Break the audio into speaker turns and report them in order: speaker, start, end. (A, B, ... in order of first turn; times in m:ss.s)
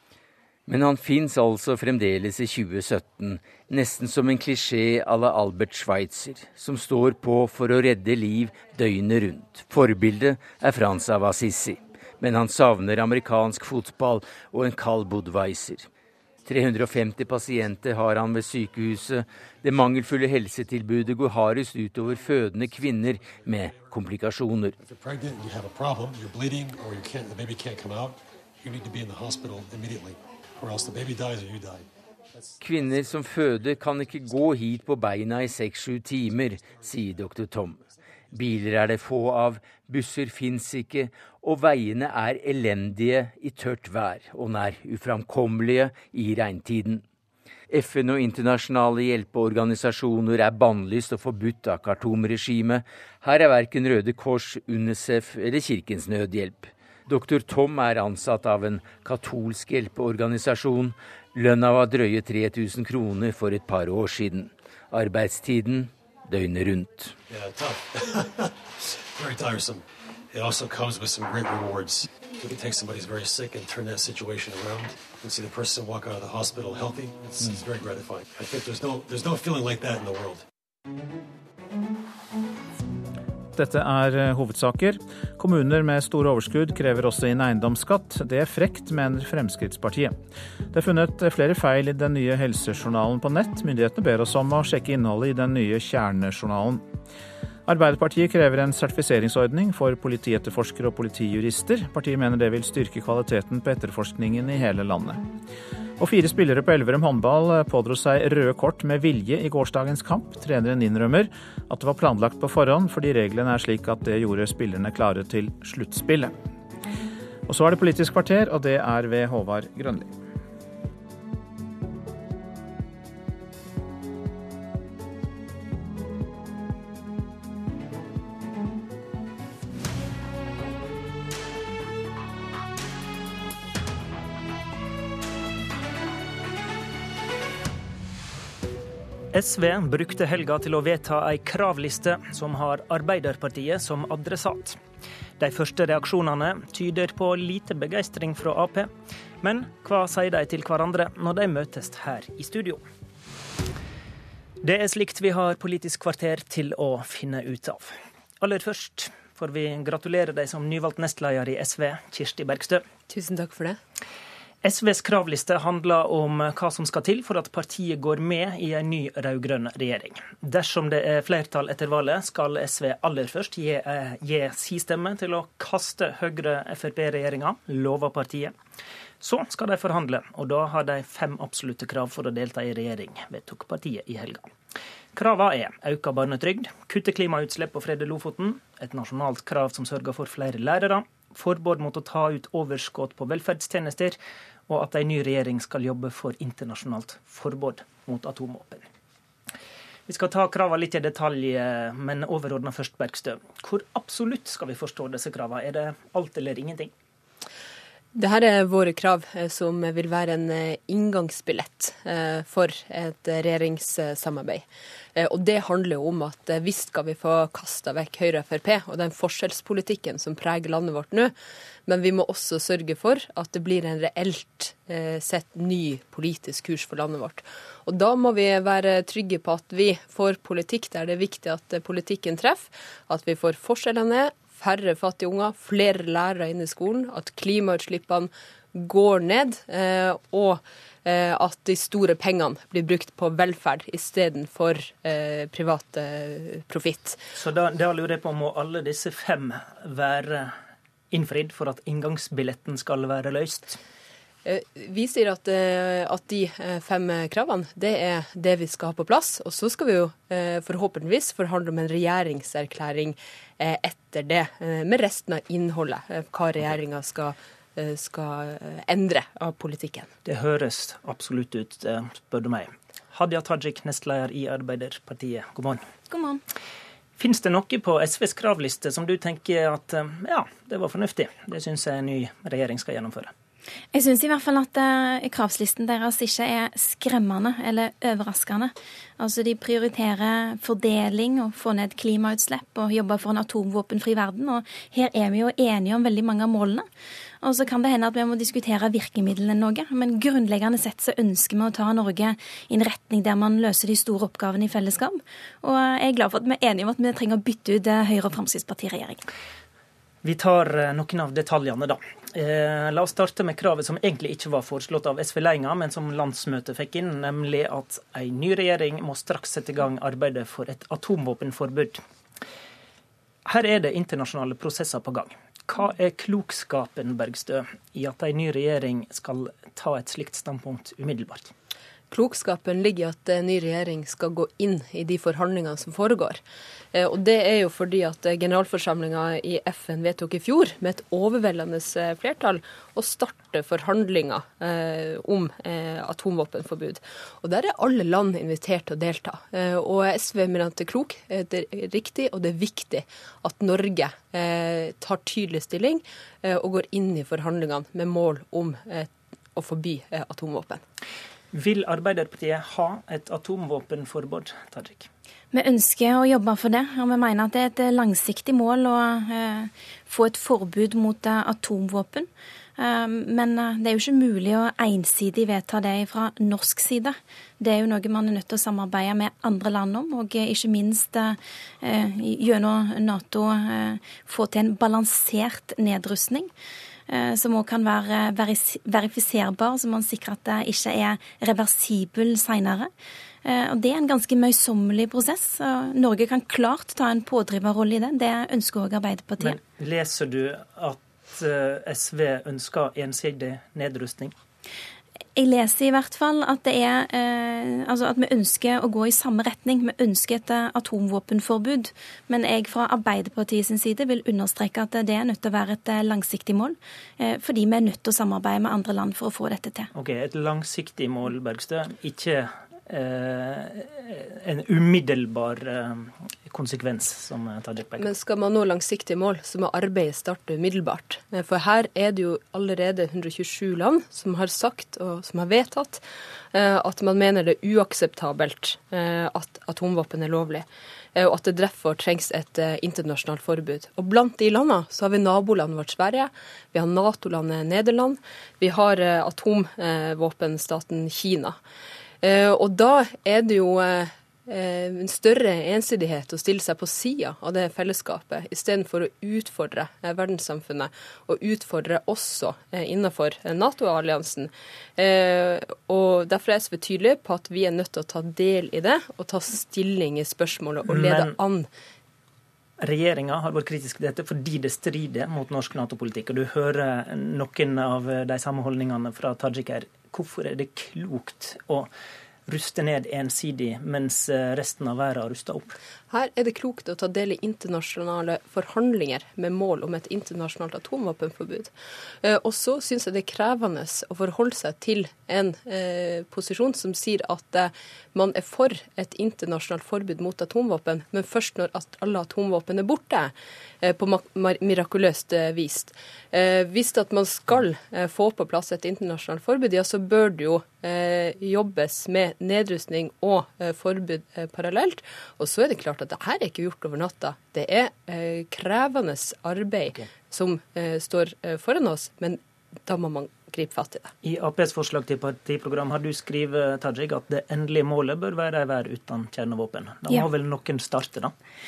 0:00.7-0:15.9 A
0:16.4-0:24.7 A
0:23.2-0:23.9 B
0:24.8-0:33.2 B
0:32.6-0:37.8 A
0:36.5-0:37.3 B
0:38.3-0:47.0 A
0:47.7-1:07.1 A
1:07.3-1:20.4 B
1:23.5-1:30.1 C
1:30.7-1:36.8 C
1:37.6-1:45.2 C
1:46.0-1:56.3 C
1:57.5-2:00.2 C
2:19.3-2:24.8 D
2:25.4-2:28.9 D
2:29.4-2:32.8 D
2:34.6-2:42.8 D
2:43.1-2:43.8 E
2:44.6-2:58.5 D
2:59.2-3:04.5 D
3:05.1-3:14.2 D
3:14.7-3:18.8 D
3:20.1-3:26.9 D
3:28.1-3:34.6 E
3:35.2-3:41.3 E
3:41.8-4:07.2 E
4:07.3-4:10.6 D
4:11.1-4:13.8 D
4:14.4-4:30.1 E
4:30.2-4:35.8 D
4:36.1-4:36.4 F
4:37.2-4:43.3 D
4:43.9-4:56.8 F
4:57.4-5:09.2 F
5:10.2-5:22.0 D
5:23.4-5:31.5 D
5:32.1-5:36.4 E
5:36.9-6:00.8 E
6:01.5-6:05.1 D
6:05.5-6:12.3 F
6:12.8-6:26.5 F
6:27.1-6:32.9 F
6:33.4-6:39.6 F
6:39.4-6:44.3 D
6:45.4-6:59.9 F
6:59.9-7:08.1 D
7:08.0-7:16.0 E
7:16.5-7:31.6 E
7:32.2-7:51.7 E
7:50.8-7:51.4 D
7:52.8-8:01.9 D
8:02.4-8:05.7 D
8:06.1-8:11.7 E
8:12.2-8:44.1 E
8:44.2-8:51.3 D